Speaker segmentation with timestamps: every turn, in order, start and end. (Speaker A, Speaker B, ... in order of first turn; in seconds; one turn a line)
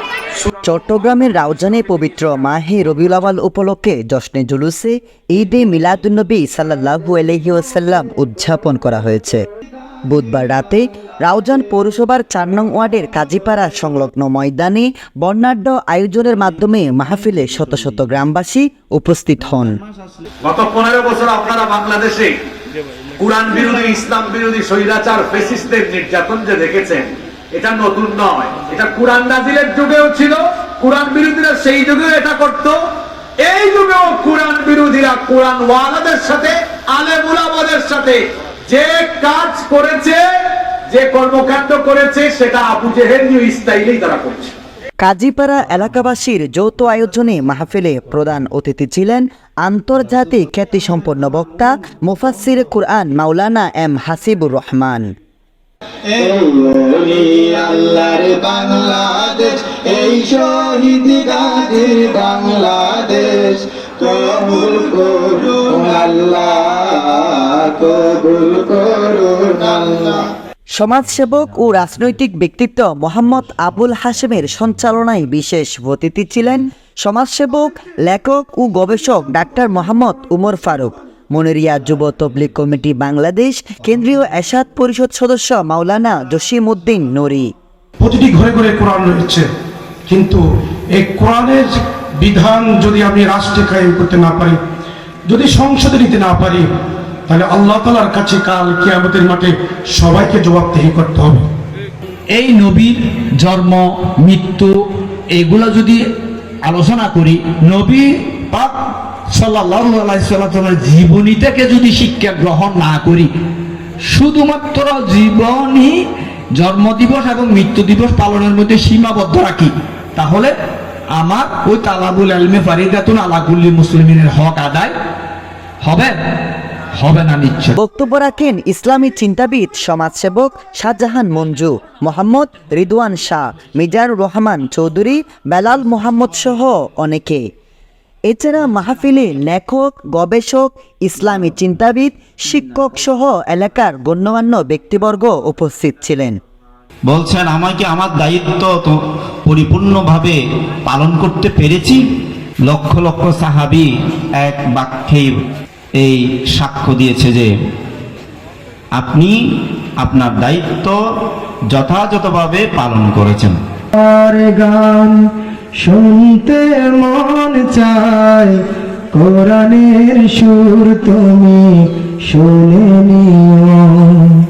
Speaker A: 0.7-9.4
Speaker A: 10.1-19.7
Speaker B: 20.4-22.4
Speaker B: 23.2-32.8
Speaker B: 33.4-40.2
Speaker B: 40.9-44.5
Speaker A: 45.0-55.1
Speaker C: 56.2-70.2
Speaker A: 70.8-87.5
Speaker D: 88.0-89.4
Speaker D: 90.1-90.4
Speaker D: 91.0-94.5
Speaker D: 95.3-96.7
Speaker D: 97.3-101.4
Speaker E: 102.3-104.7
Speaker E: 105.3-106.0
Speaker E: 106.6-108.8
Speaker E: 109.3-113.3
Speaker E: 114.1-116.0
Speaker E: 116.5-120.5
Speaker E: 121.2-124.9
Speaker E: 125.8-126.1
Speaker E: 126.9-127.8
Speaker A: 127.8-137.4
Speaker A: 138.3-146.4
Speaker F: 147.1-152.0
Speaker F: 152.7-153.9
Speaker F: 154.4-155.3
Speaker F: 156.0-157.5
Speaker F: 158.9-159.3
Speaker F: 160.0-161.0
Speaker F: 161.7-163.6
Speaker C: 164.0-165.1
Speaker C: 165.8-168.5
Speaker C: 169.2-171.7
Speaker C: 172.3-173.8